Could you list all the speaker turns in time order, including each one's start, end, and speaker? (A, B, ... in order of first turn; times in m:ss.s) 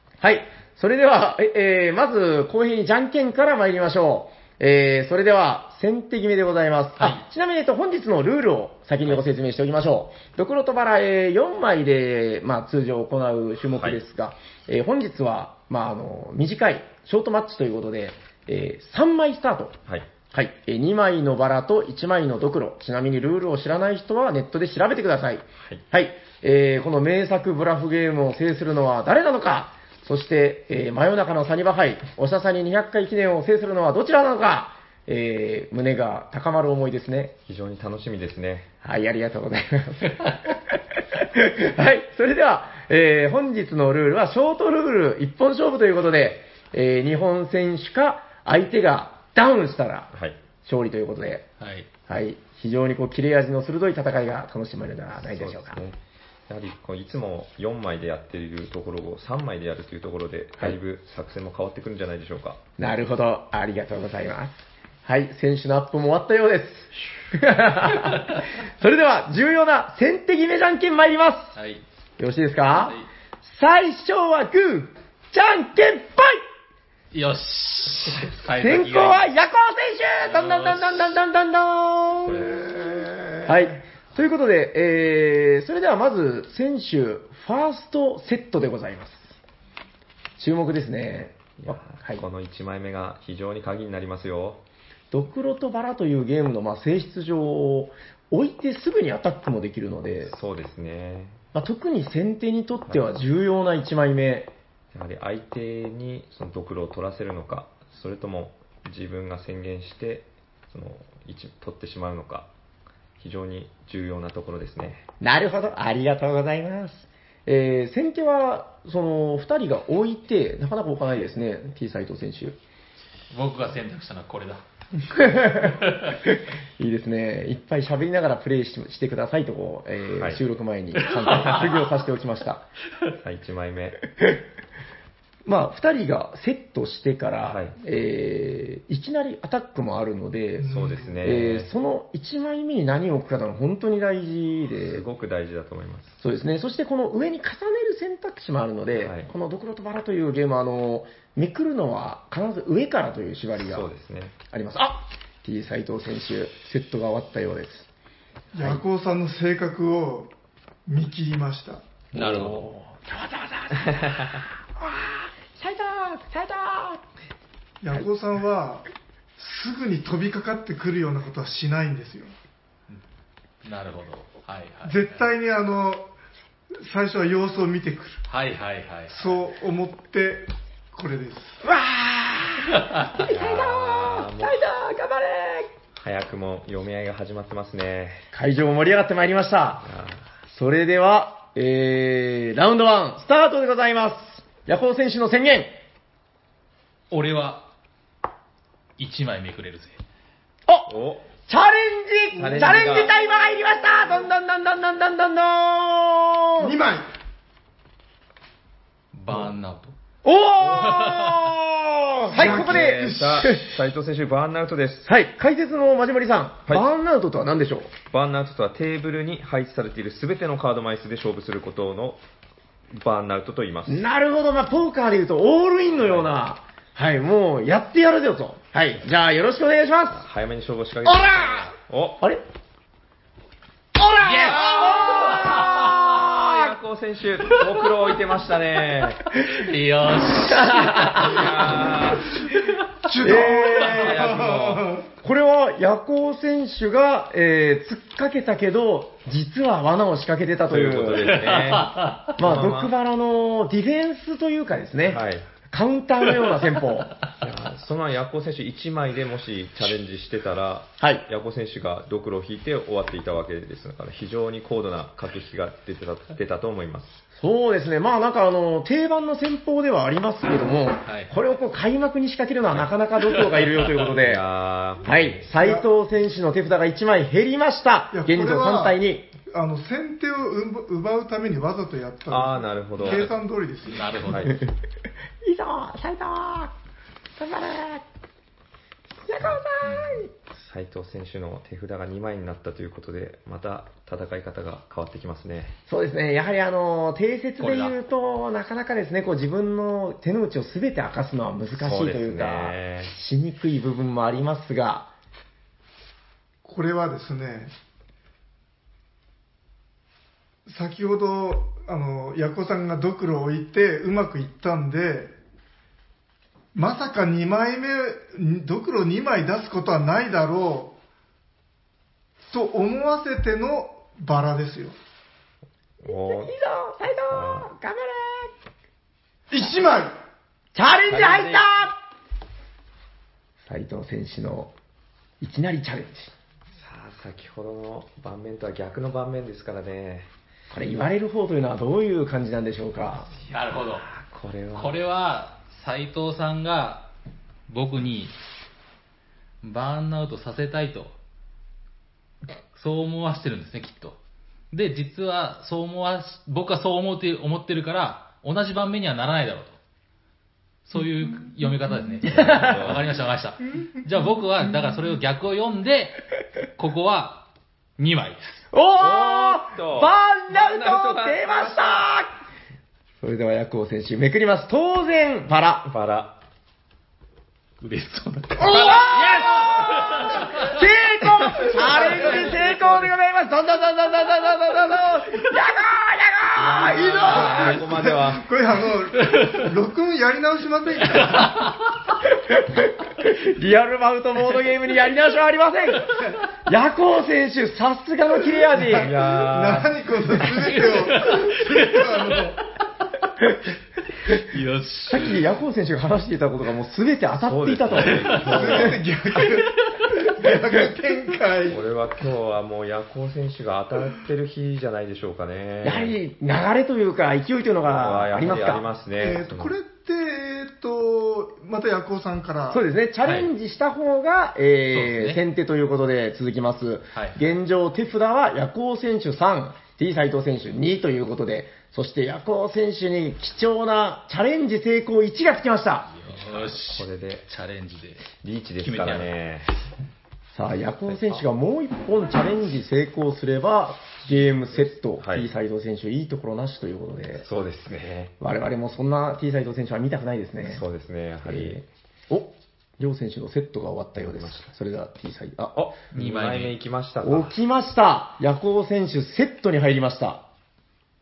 0:00.2-0:19.8 A
0:20.3-0:37.3 A
0:37.5-0:38.7 B
0:38.8-0:50.1 A
0:50.1-0:50.4 B
0:50.6-0:51.4 A
0:51.6-0:51.9 C
0:52.1-0:55.8 A
0:55.1-1:02.6 B
1:02.8-1:11.5 A
1:11.6-1:11.8 C
1:12.2-1:16.4 A
1:12.7-1:13.0 C
1:17.1-1:19.3 C
1:18.5-1:22.6 A
1:20.2-1:21.1 C
1:22.2-1:23.7 D
1:23.4-1:29.3 A
1:30.4-1:32.2 A
1:31.6-1:34.6 B
1:35.1-1:40.3 A
1:40.2-1:41.4 B
1:41.5-1:44.5 A
1:44.9-1:52.5 B
1:53.2-1:55.0 B
1:55.2-2:02.6 A
2:03.3-2:04.6 C
2:05.1-2:12.7 A
2:11.2-2:11.8 B
2:13.2-2:14.0 B
2:15.4-2:25.0 A
2:17.4-2:17.8 B
2:20.6-2:21.2 D
2:20.7-2:21.7 B
2:24.8-2:26.2 B
2:26.2-2:33.9 A
2:28.9-2:29.3 B
2:33.6-2:34.4 B
2:34.5-2:37.9 A
2:38.5-2:40.3 D
2:40.9-2:41.8 D
2:42.1-2:42.6 C
2:42.2-2:42.6 B
2:42.2-2:47.0 A
2:43.9-2:44.4 B
2:47.8-2:48.8 D
2:49.4-2:52.3 D
2:53.6-2:55.3 C
2:54.8-2:56.0 D
2:56.8-2:58.2 D
2:58.3-2:59.4 C
2:59.1-3:01.6 D
3:01.6-3:05.7 A
3:02.8-3:03.1 C
3:03.2-3:04.6 B
3:06.0-3:08.2 B
3:08.3-3:09.8 A
3:09.8-3:10.2 B
3:10.5-3:15.8 A
3:17.1-3:17.7 C
3:19.0-3:20.0 C
3:20.9-3:21.3 B
3:21.5-3:26.7 A
3:22.4-3:23.2 B
3:22.4-3:22.6 D
3:26.6-3:27.1 D
3:29.1-3:29.9 C
3:30.2-3:33.7 A
3:30.6-3:31.0 B
3:30.8-3:31.4 C
3:32.3-3:35.1 B
3:32.3-3:33.5 D
3:35.0-3:37.9 A
3:38.1-3:42.2 B
3:42.9-3:44.0 B
3:43.9-3:50.2 A
3:45.9-3:46.4 B
3:50.1-3:52.2 B
3:51.0-3:51.6 A
3:54.0-3:56.7 A
3:54.2-3:56.1 C
3:55.3-3:59.2 B
3:59.4-4:01.9 C
4:00.4-4:01.6 A
4:01.0-4:02.3 B
4:03.0-4:05.1 D
4:03.2-4:04.3 A
4:03.3-4:05.0 B
4:05.2-4:11.4 A
4:10.6-4:12.9 B
4:11.3-4:12.3 C
4:12.4-4:17.1 A
4:15.1-4:15.5 B
4:17.4-4:27.2 B
4:21.0-4:21.2 A
4:27.4-4:34.4 A
4:31.0-4:31.3 C
4:33.9-4:35.5 B
4:35.0-4:39.3 A
4:35.6-4:35.8 D
4:38.1-4:44.4 D
4:42.3-4:43.3 B
4:43.0-4:43.3 C
4:43.8-4:44.5 C
4:44.2-4:44.6 B
4:45.4-4:46.7 A
4:47.4-4:48.0 A
4:49.2-4:50.3 A
4:49.8-4:50.2 C
4:50.5-4:55.8 B
4:55.9-5:05.1 A
4:57.6-4:57.9 C
5:01.8-5:03.1 B
5:06.6-5:07.7 D
5:10.6-5:15.3 D
5:16.7-5:20.9 D
5:22.5-5:24.9 D
5:26.0-5:26.6 B
5:26.0-5:28.5 A
5:27.3-5:27.7 B
5:29.5-5:30.1 D
5:30.7-5:31.9 A
5:31.1-5:31.7 B
5:33.6-5:34.7 A
5:35.4-5:36.3 A
5:36.7-5:40.3 B
5:40.7-5:43.3 A
5:43.2-5:45.0 B
5:43.5-5:44.0 C
5:44.7-5:47.1 C
5:47.7-5:48.4 C
5:49.6-5:51.2 C
5:52.7-5:54.2 C
5:54.7-5:59.8 C
6:00.8-6:06.2 C
6:02.2-6:03.0 B
6:02.3-6:02.9 A
6:06.8-6:08.6 C
6:08.7-6:12.3 A
6:09.0-6:12.1 B
6:13.2-6:15.9 A
6:15.8-6:16.4 B
6:17.8-6:20.7 C
6:18.6-6:20.6 D
6:18.6-6:19.7 B
6:18.6-6:27.8 A
6:21.6-6:23.1 B
6:26.5-6:28.5 B
6:26.7-6:31.7 D
6:31.3-6:31.7 C
6:32.4-6:39.1 A
6:38.7-6:42.6 D
6:38.9-6:40.8 B
6:40.5-6:42.4 C
6:44.3-6:45.4 C
6:45.1-6:48.9 A
6:47.4-6:49.0 B
6:48.0-6:48.6 C
6:48.4-6:51.8 D
6:49.4-6:50.2 C
6:51.6-6:56.2 B
6:55.8-6:58.9 A
6:57.8-6:59.8 B
6:59.2-7:02.8 D
7:02.7-7:16.1 A
7:04.9-7:05.4 C
7:16.2-7:17.5 B
7:16.2-7:19.4 C
7:18.4-7:19.7 B
7:20.5-7:27.4 A
7:21.1-7:21.4 B
7:24.7-7:25.5 B
7:27.4-7:28.3 B
7:28.4-7:30.8 A
7:30.6-7:31.8 B
7:31.4-7:35.9 A
7:34.2-7:34.7 B
7:35.7-7:37.6 B
7:36.1-7:36.8 C
7:37.2-7:40.4 A